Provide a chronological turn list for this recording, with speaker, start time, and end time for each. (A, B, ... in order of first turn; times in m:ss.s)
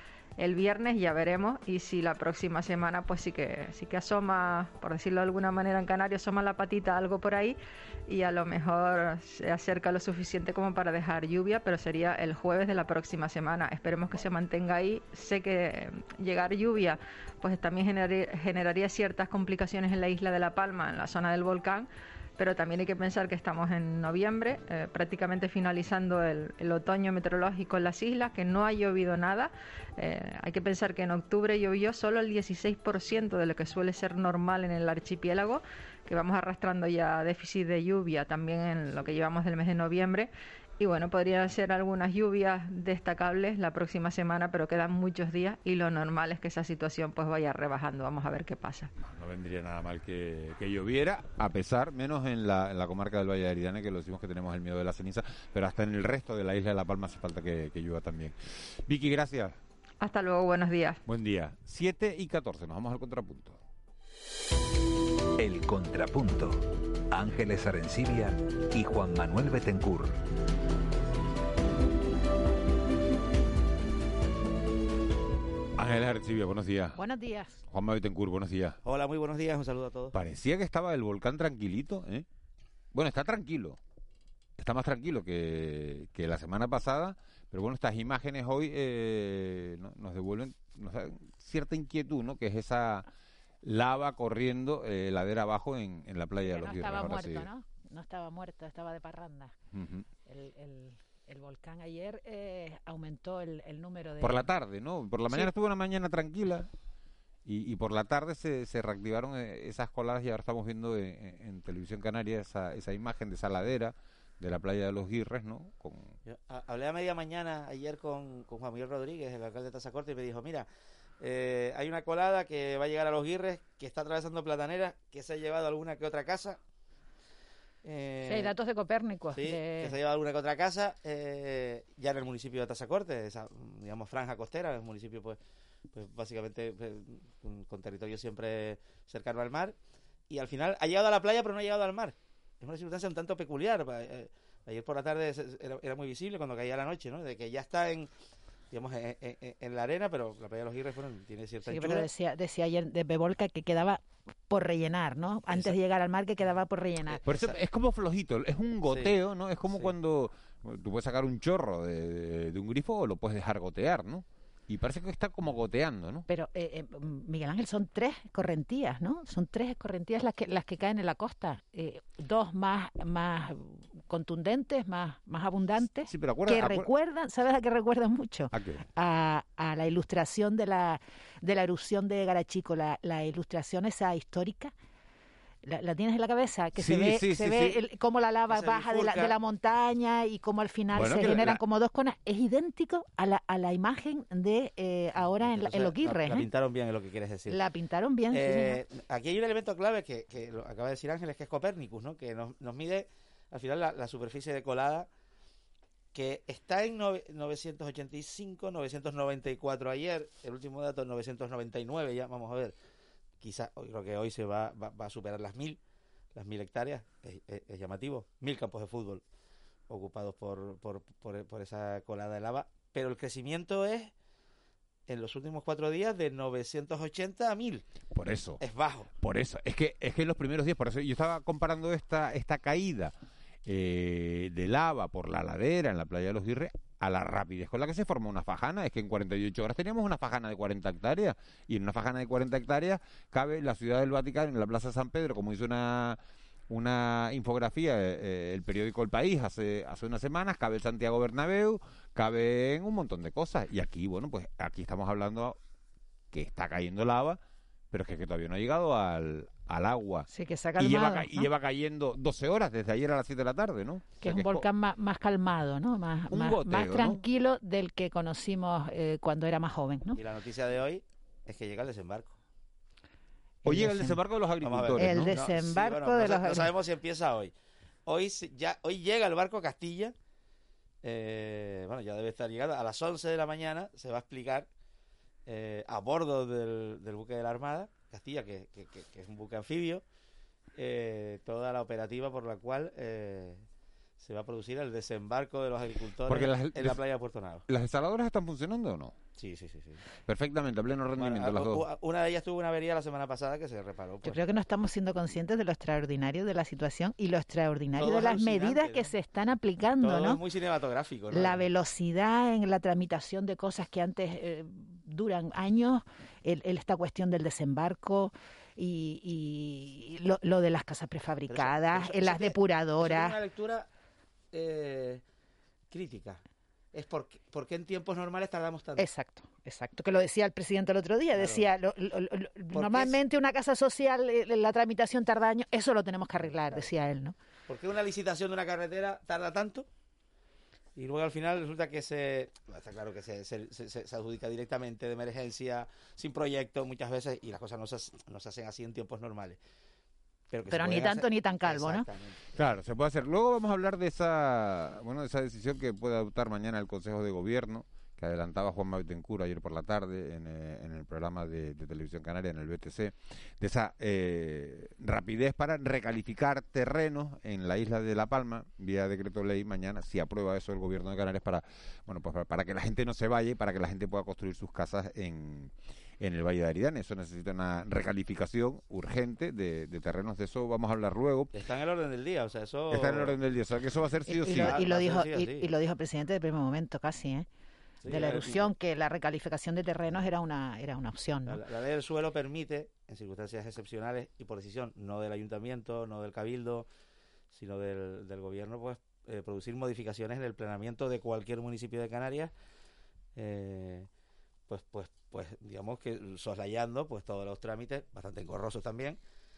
0:00.4-0:07.6 A
0:08.1-0:48.9 A
0:49.0-0:59.6 B
1:00.0-1:01.0 A
1:01.0-1:03.6 B
1:05.4-1:10.2 C
1:15.8-1:17.0 B
1:17.0-1:17.6 D
1:17.7-1:18.8 B
1:18.8-1:20.2 E
1:20.1-1:22.2 B
1:22.9-1:23.8 B
1:24.6-1:33.0 B
1:33.6-1:37.5 B
1:36.5-1:39.5 D
1:39.7-1:40.0 B
1:40.3-1:44.5 D
1:44.2-1:46.7 B
1:47.4-1:56.2 B
1:56.2-2:00.6 E
2:01.2-2:06.6 E
2:07.8-2:08.6 E
2:08.2-2:09.9 D
2:09.3-2:15.4 E
2:15.9-2:19.7 E
2:20.3-2:28.1 E
2:28.7-2:32.1 E
2:31.6-2:37.2 D
2:37.1-2:37.5 E
2:37.2-2:46.2 B
2:38.8-2:39.1 E
2:39.7-2:39.9 E
2:46.3-3:04.7 D
2:56.0-2:56.9 B
2:58.5-2:58.8 B
3:05.6-3:16.5 D
3:06.8-3:07.8 B
3:08.5-3:09.3 E
3:10.9-3:11.6 B
3:15.4-3:17.6 E
3:17.5-3:18.8 D
3:18.3-3:25.1 E
3:26.1-3:32.8 E
3:33.4-3:35.8 E
3:36.3-3:39.2 E
3:39.9-3:44.1 E
3:45.1-3:47.8 E
3:48.1-3:48.6 B
3:48.6-3:49.1 E
3:49.2-3:53.1 B
3:53.6-4:06.2 B
4:06.7-4:15.6 B
4:16.3-4:17.4 B
4:17.9-4:24.7 B
4:20.3-4:21.5 D
4:24.2-4:30.2 D
4:26.3-4:27.2 B
4:30.1-4:32.3 E
4:33.6-4:34.2 D
4:33.6-4:35.3 B
4:34.6-4:37.5 E
4:35.0-4:36.7 D
4:38.0-4:40.1 E
4:41.0-4:44.7 E
4:45.4-4:50.0 E
4:50.7-4:53.6 E
4:54.2-4:57.6 E
4:56.3-4:57.0 B
4:57.7-4:59.2 B
4:59.4-5:00.0 E
5:00.3-5:01.8 B
5:01.2-5:04.4 E
5:04.2-5:10.4 D
5:08.0-5:09.1 E
5:10.0-5:11.6 E
5:11.3-5:23.4 D
5:21.5-5:23.9 E
5:24.5-5:25.2 E
5:25.9-5:26.4 E
5:26.9-5:29.1 E
5:29.0-5:37.3 D
5:31.4-5:31.7 E
5:32.7-5:33.2 E
5:36.4-5:36.9 E
5:37.7-5:39.9 E
5:41.0-5:49.6 E
5:50.5-5:52.6 E
5:50.7-5:52.0 D
5:52.6-6:21.5 B
6:21.5-6:23.4 E
6:22.9-6:24.8 B
6:24.3-6:27.4 D
6:24.4-6:25.7 E
6:28.0-6:28.7 E
6:28.1-6:31.6 D
6:31.4-6:36.9 E
6:37.5-6:42.5 E
6:43.4-6:44.1 E
6:44.7-6:49.2 E